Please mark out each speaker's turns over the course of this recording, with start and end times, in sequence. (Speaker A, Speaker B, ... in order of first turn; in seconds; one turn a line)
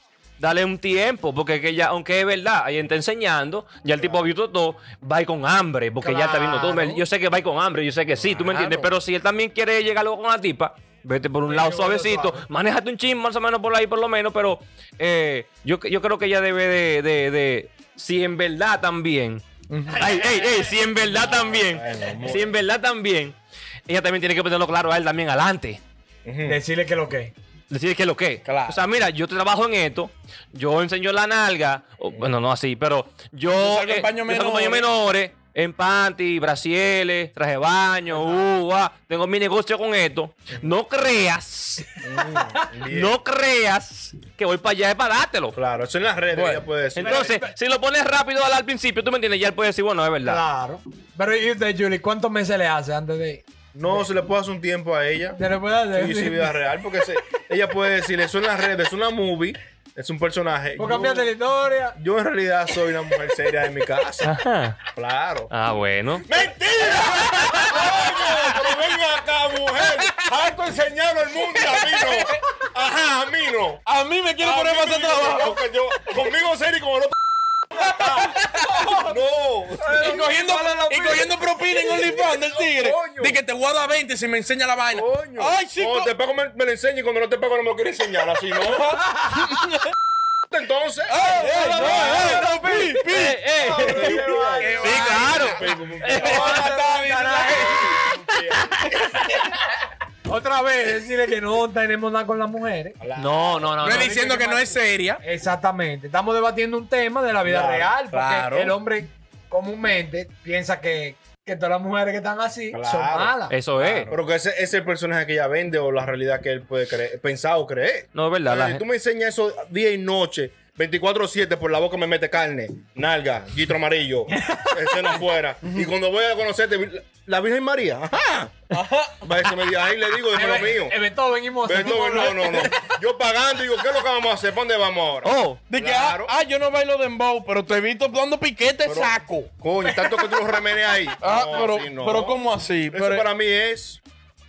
Speaker A: 0.4-19.4
Speaker B: 3.9-4.3
Speaker C: 6.0-7.0
Speaker B: 8.2-8.7
Speaker D: 8.6-8.8
Speaker C: 11.4-12.5
Speaker D: 19.7-20.1
Speaker A: 19.9-25.8
Speaker B: 21.1-22.6
Speaker B: 26.2-26.6
Speaker C: 26.4-27.3
Speaker A: 27.7-42.0
Speaker D: 28.4-28.8
Speaker D: 33.5-34.9
Speaker B: 42.0-43.1
Speaker C: 42.2-42.6
Speaker A: 42.9-45.5
Speaker B: 45.5-47.2
Speaker D: 46.3-46.7
Speaker C: 47.0-47.5
Speaker A: 47.0-50.4
Speaker C: 50.2-54.0
Speaker B: 53.7-55.4
Speaker C: 55.4-56.5
Speaker B: 55.9-61.3
Speaker C: 60.8-62.0
Speaker B: 61.9-64.3
Speaker A: 64.2-64.8
Speaker B: 64.9-65.5
Speaker A: 65.5-66.3
Speaker B: 66.2-73.8
Speaker A: 66.8-68.6
Speaker D: 71.5-72.4
Speaker D: 73.8-75.6
Speaker B: 74.4-77.1
Speaker D: 77.7-79.0
Speaker C: 77.8-79.1
Speaker B: 79.0-80.2
Speaker C: 79.8-82.0
Speaker D: 80.0-86.1
Speaker B: 81.9-83.4
Speaker B: 84.9-89.0
Speaker D: 88.6-89.9
Speaker C: 89.1-89.4
Speaker B: 90.5-92.5
Speaker D: 91.1-93.4
Speaker A: 91.3-96.6
Speaker C: 93.6-95.0
Speaker B: 93.6-96.8
Speaker D: 94.6-98.0
Speaker C: 96.1-98.1
Speaker B: 97.5-99.2
Speaker A: 98.9-99.3
Speaker C: 100.3-103.0
Speaker B: 103.0-103.8
Speaker A: 103.2-104.1
Speaker D: 103.8-105.2
Speaker C: 103.8-113.6
Speaker B: 107.4-107.9
Speaker D: 108.1-108.8
Speaker B: 112.7-113.3
Speaker A: 113.5-114.1
Speaker D: 113.8-114.1
Speaker B: 114.1-130.9
Speaker A: 118.1-118.8
Speaker C: 124.3-125.2
Speaker D: 128.7-129.4
Speaker C: 130.3-132.9
Speaker B: 131.6-136.3
Speaker A: 135.2-135.6
Speaker D: 135.7-140.2
Speaker B: 138.8-144.0
Speaker D: 141.2-143.3